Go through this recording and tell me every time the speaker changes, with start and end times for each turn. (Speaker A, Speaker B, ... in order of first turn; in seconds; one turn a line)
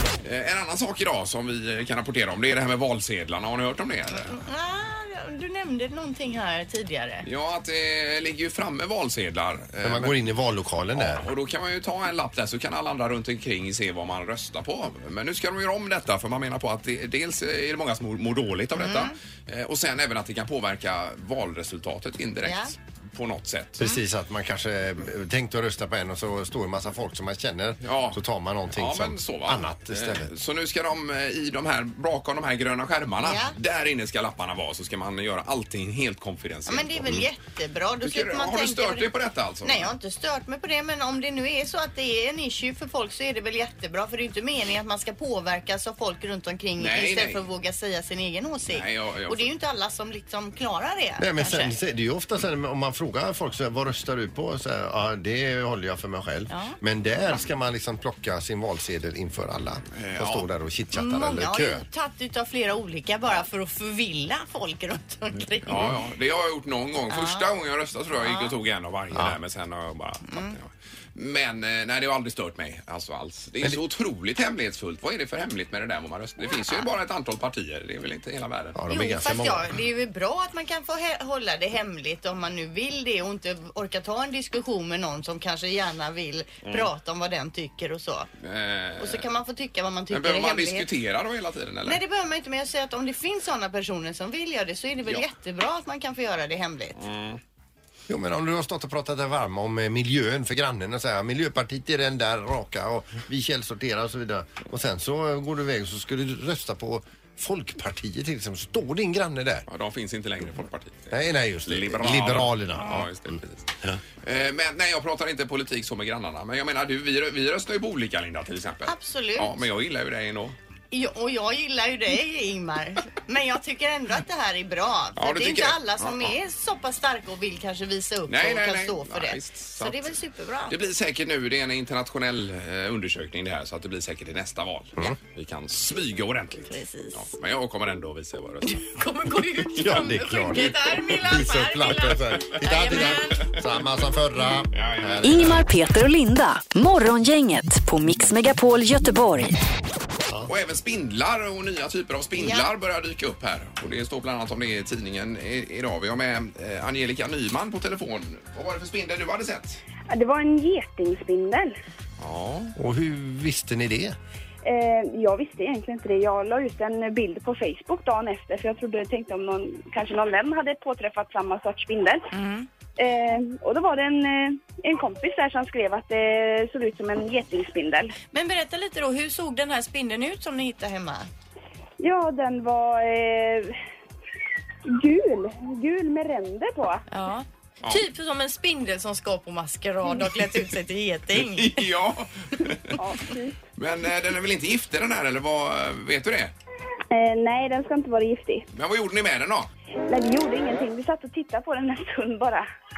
Speaker A: 0.2-4.3
Speaker B: 4.2-7.2
Speaker A: 7.2-10.2
Speaker C: 9.8-11.3
Speaker A: 10.9-23.9
Speaker B: 18.7-19.1
Speaker B: 22.4-22.7
Speaker C: 23.8-30.3
Speaker A: 27.8-37.2
Speaker B: 33.2-33.5
Speaker B: 36.7-39.1
Speaker A: 38.0-39.9
Speaker B: 39.6-51.7
Speaker A: 46.8-47.4
Speaker A: 48.7-49.5
Speaker C: 51.2-61.9
Speaker B: 56.5-56.8
Speaker A: 59.9-60.5
Speaker B: 60.9-66.0
Speaker A: 65.7-78.8
Speaker B: 67.1-67.5
Speaker B: 68.2-68.6
Speaker B: 70.3-70.6
Speaker C: 78.8-79.7
Speaker B: 78.9-88.3
Speaker A: 86.7-86.9
Speaker A: 88.4-89.3
Speaker B: 89.0-90.9
Speaker A: 90.1-92.0
Speaker B: 91.8-97.0
Speaker A: 97.0-97.4
Speaker C: 98.1-109.7
Speaker A: 109.7-120.5
Speaker C: 111.1-114.0
Speaker B: 118.9-119.6
Speaker B: 120.9-130.8
Speaker A: 125.2-126.3
Speaker A: 128.3-130.2
Speaker A: 130.7-138.9
Speaker B: 136.7-137.2
Speaker B: 138.7-143.6
Speaker A: 139.7-140.8
Speaker C: 139.8-145.7
Speaker A: 142.9-143.2
Speaker A: 144.7-145.6
Speaker D: 145.2-149.6
Speaker A: 150.5-159.8
Speaker B: 152.3-152.7
Speaker E: 160.1-161.8
Speaker A: 162.2-162.7
Speaker C: 162.8-164.2
Speaker E: 164.6-172.3
Speaker B: 172.3-172.7
Speaker E: 173.0-178.2
Speaker B: 178.3-181.3
Speaker E: 182.0-183.8
Speaker E: 184.9-187.0
Speaker B: 187.1-191.9
Speaker A: 191.3-192.9
Speaker E: 193.0-193.6
Speaker A: 193.8-196.5
Speaker E: 197.1-198.7
Speaker A: 198.7-199.7
Speaker E: 200.1-202.7